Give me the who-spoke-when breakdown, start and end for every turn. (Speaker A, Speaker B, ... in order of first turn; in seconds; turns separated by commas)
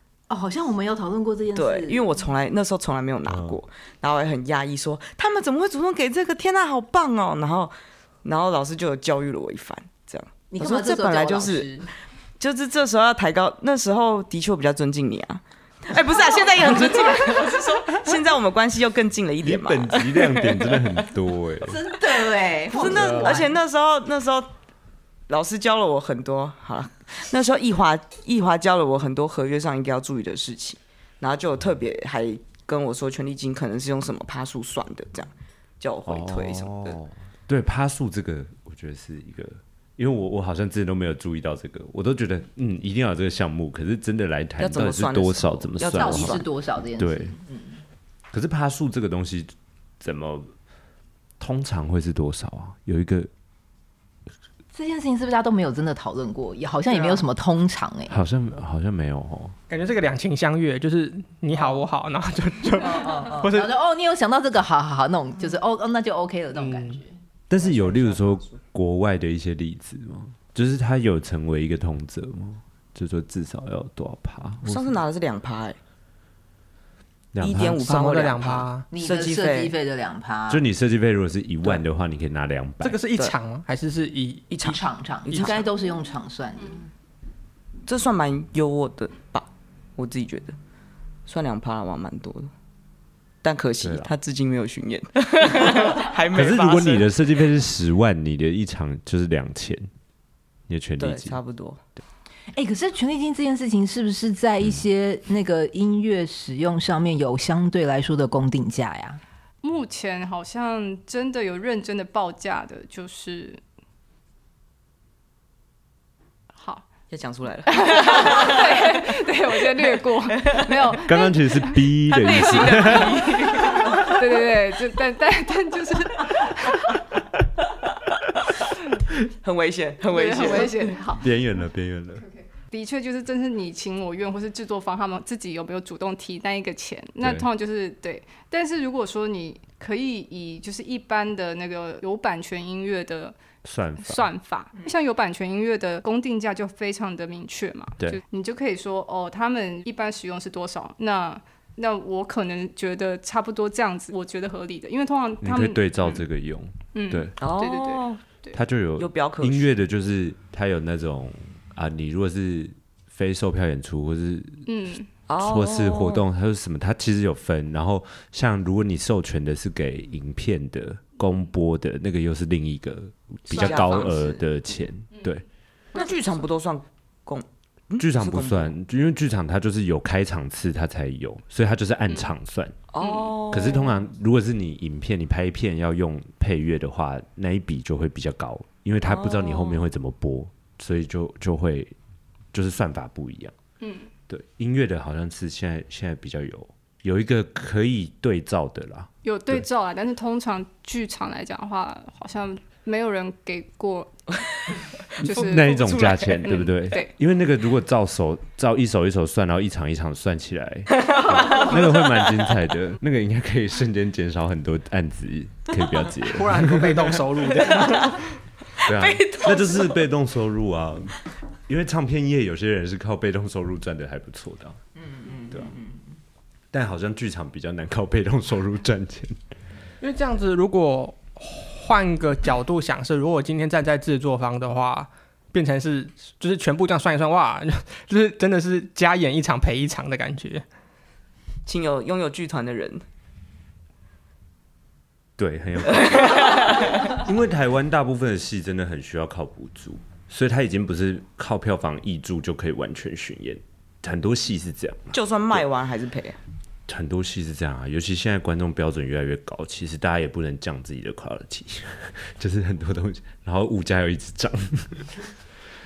Speaker A: 0.3-2.2, Speaker B: 1.5-11.7, Speaker C: 3.3-3.6, Speaker A: 10.5-11.9, Speaker B: 12.4-21.1, Speaker A: 16.9-17.4, Speaker C: 19.4-21.8, Speaker A: 21.6-23.5, Speaker B: 22.7-24.5, Speaker C: 22.9-23.3, Speaker B: 25.3-37.0, Speaker C: 36.0-46.4, Speaker B: 44.6-46.4, Speaker A: 45.9-47.8, Speaker C: 47.0-47.3, Speaker C: 48.3-50.5, Speaker C: 51.4-53.3, Speaker A: 54.7-58.2, Speaker D: 56.9-57.2, Speaker C: 58.1-59.5, Speaker D: 59.7-63.7, Speaker A: 62.8-67.1, Speaker D: 66.5-67.0, Speaker C: 67.5-75.0, Speaker B: 67.6-68.5, Speaker B: 74.6-75.8, Speaker C: 77.3-77.8, Speaker B: 77.4-79.7, Speaker D: 77.8-78.9, Speaker A: 78.9-80.7, Speaker C: 80.5-83.0, Speaker D: 82.8-84.5, Speaker B: 84.5-85.7, Speaker A: 84.6-86.8, Speaker B: 87.8-90.5, Speaker B: 91.3-92.5, Speaker B: 93.4-97.1, Speaker C: 93.8-94.1, Speaker C: 96.3-99.9, Speaker C: 100.7-101.4, Speaker B: 101.0-101.8, Speaker A: 102.5-109.2, Speaker E: 109.6-113.6, Speaker E: 116.6-116.9, Speaker B: 117.1-119.0, Speaker E: 117.7-127.0, Speaker B: 119.8-120.9, Speaker C: 121.0-124.0, Speaker B: 122.1-124.2, Speaker B: 129.3-131.0, Speaker E: 130.1-131.3, Speaker C: 131.2-132.2, Speaker E: 132.2-143.3, Speaker C: 137.2-137.5, Speaker C: 143.6-144.3, Speaker E: 144.0-156.2, Speaker C: 155.4-157.3, Speaker E: 156.9-158.6, Speaker B: 157.4-158.2, Speaker C: 158.5-164.6, Speaker B: 159.0-159.7, Speaker E: 164.7-165.1, Speaker B: 165.3-166.2, Speaker C: 165.4-175.4, Speaker E: 173.5-174.1, Speaker B: 173.5-174.4, Speaker E: 175.1-175.4, Speaker E: 175.9-176.4, Speaker B: 175.9-178.7, Speaker C: 178.0-182.8, Speaker B: 182.9-184.0, Speaker E: 183.0-183.3, Speaker C: 183.5-191.9, Speaker B: 189.0-189.8, Speaker C: 192.5-193.5, Speaker E: 193.8-194.1, Speaker C: 194.3-199.6, Speaker E: 199.2-204.2, Speaker E: 205.2-207.1, Speaker C: 205.2-217.3, Speaker B: 205.2-206.4, Speaker B: 211.0-212.5, Speaker D: 216.2-218.2, Speaker B: 217.7-218.1, Speaker C: 218.8-221.2, Speaker B: 218.8-220.0, Speaker C: 221.7-224.8, Speaker A: 225.0-226.0, Speaker C: 225.5-225.7, Speaker C: 226.7-229.4, Speaker D: 230.0-240.6, Speaker B: 241.7-243.0, Speaker C: 245.4-255.6, Speaker B: 246.1-247.2, Speaker B: 255.1-256.4, Speaker C: 256.9-265.2